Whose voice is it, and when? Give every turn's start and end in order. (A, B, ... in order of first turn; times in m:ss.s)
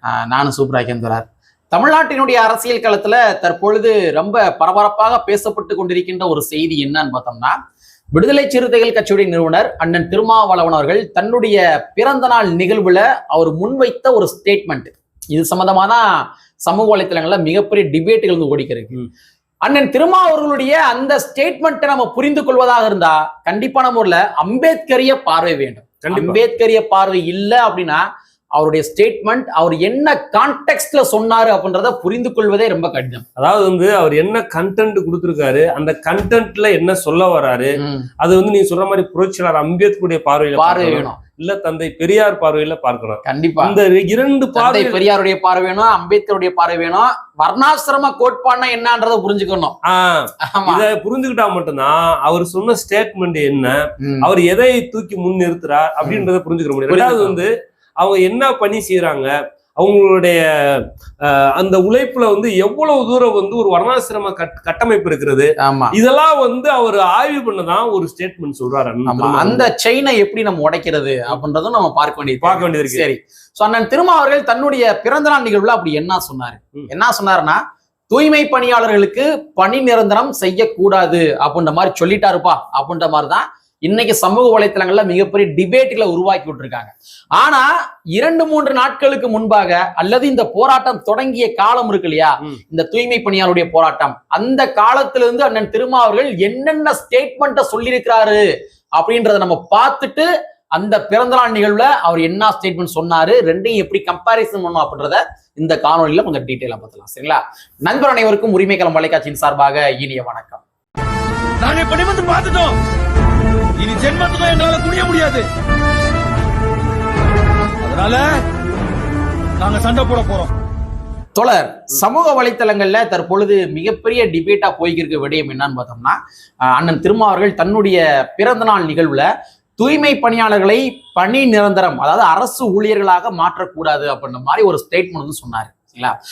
0:00.1-0:07.5 A
0:08.1-0:16.1 A
0:16.6-0:19.0 A
0:19.6-0:28.0 A
0:26.0-0:26.4 B
0:28.5-0:33.2 A
0:33.4-0:45.0 B
0:37.8-0:38.1 A
0:40.6-0:41.2 A
0:43.2-0:43.7 A
0:44.5-0:49.8 A
0:49.8-1:09.7 B
0:50.5-0:50.8 A
0:54.0-0:54.3 A
0:56.9-0:57.4 A
1:05.6-1:06.0 A
1:09.1-1:17.6 A
1:12.4-1:13.0 B
1:18.1-1:38.4 A
1:39.0-1:50.6 A
1:51.6-1:52.8 C
1:53.8-1:55.5 C
1:57.8-1:58.4 C
1:59.6-2:00.5 C
2:01.4-2:06.2 A
2:06.7-2:09.3 A
2:09.8-2:16.1 A